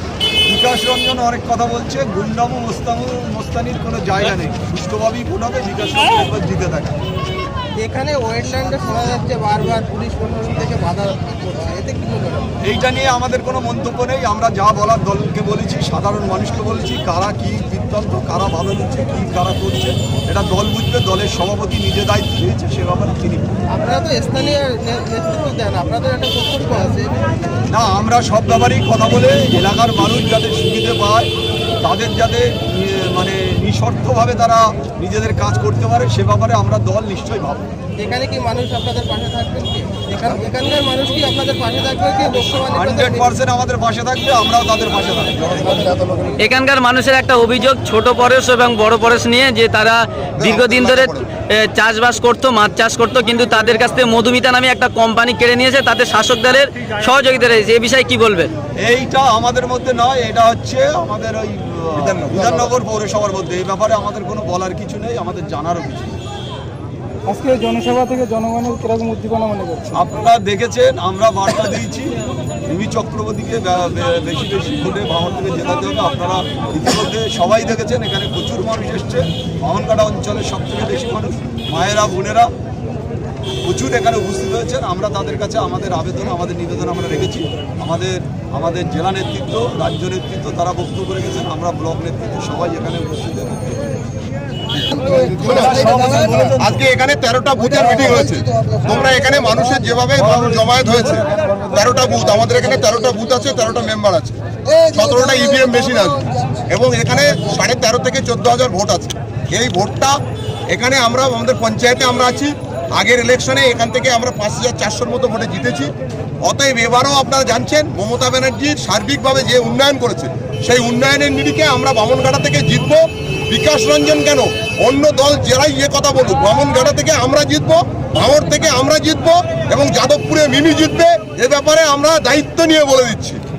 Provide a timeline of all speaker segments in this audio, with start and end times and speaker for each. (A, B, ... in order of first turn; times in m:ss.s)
0:00.5-0:07.0 A
0:07.8-0:12.5 B
0:12.6-0:23.5 A
0:23.7-0:27.6 B
0:27.7-0:31.3 A
0:31.8-0:37.7 A
0:38.0-0:43.3 B
0:42.7-0:45.8 A
0:46.4-0:58.5 C
0:50.4-0:51.2 D
0:58.8-1:06.2 A
1:02.0-1:02.7 D
1:07.3-1:10.0 E
1:10.0-1:22.5 A
1:23.6-1:34.0 A
1:34.7-1:35.9 D
1:35.1-1:36.8 A
1:36.6-1:50.2 D
1:40.4-1:41.7 A
1:50.7-1:55.9 D
1:56.4-2:13.4 D